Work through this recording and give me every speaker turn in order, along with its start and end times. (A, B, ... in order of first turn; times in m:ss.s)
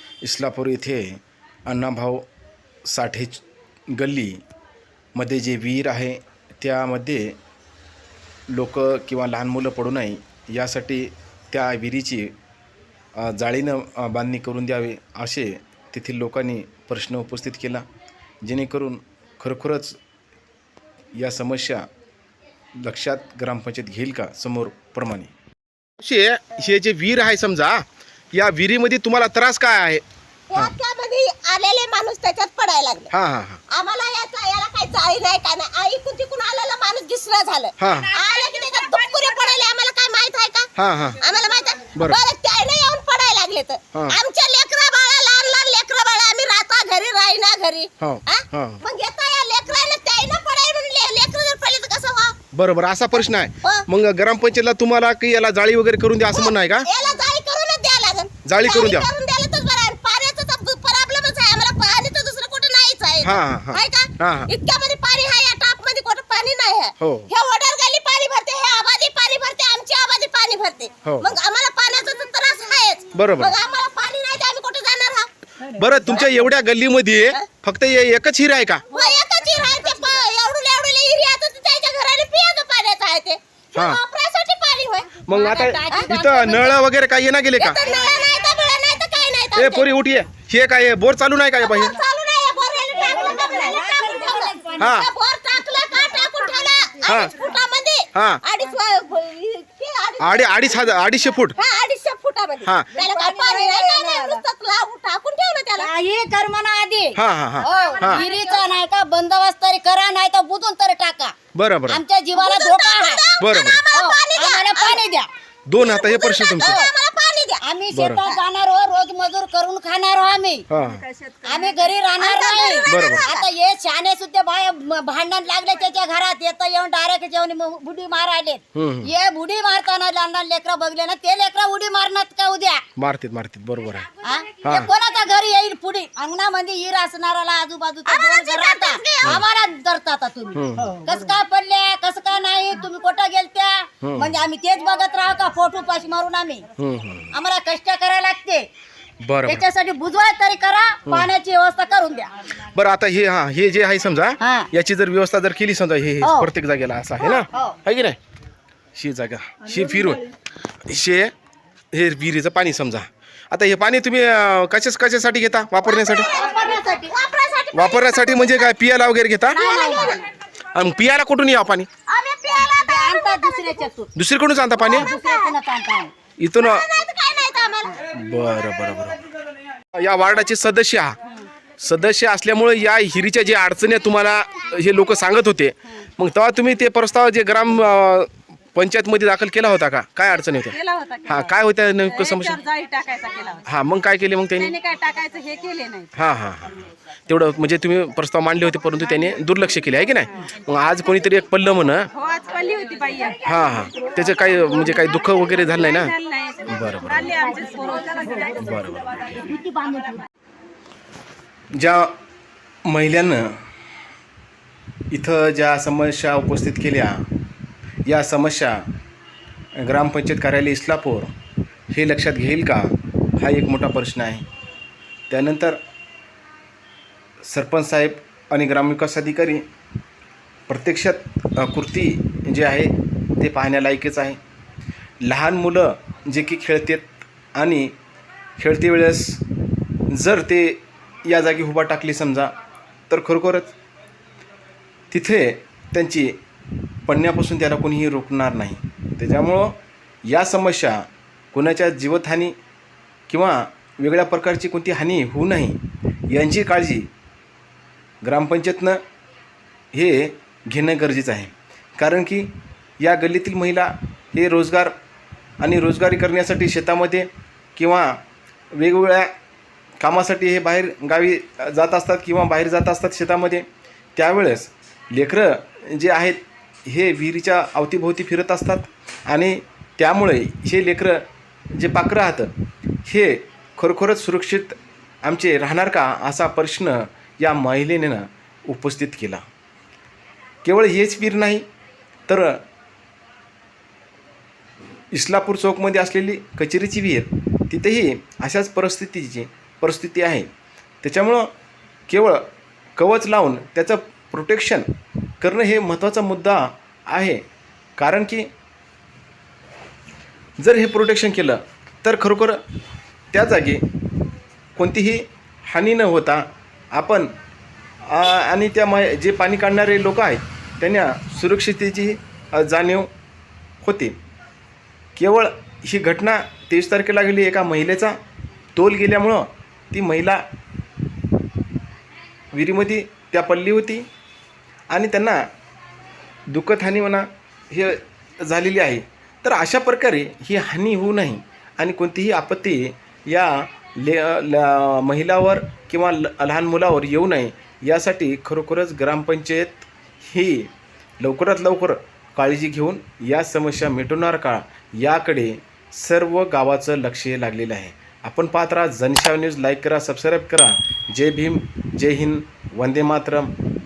0:00.2-0:02.2 A
0:02.8-0:04.4 A
0:05.2-0:07.4 A
0:08.5-0:12.3 A
0:13.2-0:17.9 A
0:18.4-0:20.0 A
0:21.1-0:21.9 A
0:22.8-0:25.3 A
0:26.0-0:30.0 A
0:30.5-0:33.1 B
0:33.1-0:33.6 A
0:33.7-0:52.4 B
0:37.8-0:38.1 A
0:38.9-0:39.6 C
0:40.8-0:41.2 A
0:48.0-0:48.8 A
0:52.5-0:56.9 A
0:53.1-0:53.9 B
0:56.3-1:15.3 B
0:58.4-0:59.1 A
1:03.2-1:04.5 A
1:07.0-1:07.3 A
1:11.0-1:11.4 A
1:13.1-1:13.6 A
1:15.7-1:18.8 A
1:18.9-1:25.2 B
1:23.7-1:24.0 A
1:25.2-1:27.8 A
1:25.3-1:26.8 C
1:25.9-1:26.2 B
1:27.6-1:29.9 B
1:27.8-1:28.5 C
1:29.6-1:31.9 A
1:31.6-1:45.9 B
1:33.0-1:35.1 C
1:34.8-1:35.1 A
1:35.8-1:37.2 C
1:37.0-1:37.3 A
1:38.1-1:38.4 A
1:40.2-1:41.6 A
1:42.6-1:42.9 A
1:42.9-1:44.4 C
1:45.8-1:51.3 C
1:47.2-1:48.2 A
1:47.7-1:48.7 B
1:51.6-1:52.0 A
1:51.9-1:53.2 C
1:52.3-1:55.0 B
1:53.4-1:53.8 A
1:53.9-1:55.3 C
1:55.7-1:56.8 A
1:55.8-1:57.6 B
1:56.6-1:56.9 C
1:57.6-2:00.7 C
1:57.9-1:58.2 A
2:00.7-2:01.0 A
2:01.4-2:12.8 C
2:02.2-2:03.5 B
2:02.9-2:03.3 A
2:08.8-2:09.1 A
2:13.0-2:14.1 A
2:14.2-2:26.7 C
2:14.6-2:14.9 A
2:18.1-2:19.5 B
2:20.6-2:21.0 A
2:24.0-2:24.4 A
2:26.8-2:27.3 A
2:27.3-2:28.7 C
2:29.2-2:29.7 A
2:29.4-2:32.3 C
2:32.7-2:38.2 A
2:34.4-2:34.7 C
2:36.2-2:36.5 C
2:37.2-2:37.8 C
2:39.0-2:40.3 A
2:40.8-2:41.3 A
2:41.9-2:46.3 A
2:45.8-2:48.7 B
2:46.2-2:47.1 C
2:47.7-2:49.6 A
2:49.5-2:50.2 C
2:49.5-2:50.2 B
2:50.8-2:51.9 A
2:52.1-2:53.8 B
2:52.8-2:54.1 C
2:54.2-2:55.1 A
2:54.8-2:56.1 C
2:54.8-2:55.5 B
2:56.4-2:56.8 A
2:56.6-2:58.1 B
2:58.1-2:59.2 A
2:59.9-3:01.2 A
3:01.8-3:12.6 A
3:10.9-3:11.5 C
3:10.9-3:11.2 D
3:12.2-3:13.6 D
3:12.3-3:13.2 C
3:13.6-3:14.8 A
3:14.6-3:16.1 C
3:15.0-3:15.6 D
3:16.1-3:22.1 A
3:22.2-3:23.4 D
3:23.4-3:27.5 A
3:25.7-3:28.6 D
3:27.3-3:28.5 C
3:28.5-3:29.6 A
3:29.4-3:30.2 C
3:31.8-3:32.1 A
3:32.9-3:33.6 A
3:35.1-3:37.3 A
3:38.1-3:38.8 A
3:39.8-3:41.3 A
3:41.9-3:44.4 A
3:45.3-3:45.8 A
3:47.4-3:49.6 A
3:50.7-3:54.4 A
3:55.2-3:57.9 A
3:58.6-3:59.4 A
4:00.1-4:02.5 A
4:03.1-4:03.8 A
4:05.1-4:06.4 A
4:07.0-4:12.6 A
4:13.3-4:17.1 A
4:18.2-4:19.0 A
4:19.9-4:24.9 A
4:25.6-4:28.2 A
4:28.7-4:29.3 A
4:30.0-4:42.5 A
4:43.1-4:49.4 A
4:50.6-4:51.6 A
4:52.3-4:52.6 A
4:55.1-5:00.5 A
5:01.0-5:01.5 A
5:02.1-5:04.9 A
5:05.4-5:07.4 A
5:08.0-5:08.5 A
5:10.6-5:12.6 A
5:13.3-5:13.8 A
5:14.8-5:17.3 A
5:18.0-5:23.1 A
5:23.8-5:24.2 A
5:25.2-5:28.2 A
5:28.8-5:30.4 A
5:32.5-5:34.1 A
5:34.9-5:35.5 A
5:36.5-6:03.5 A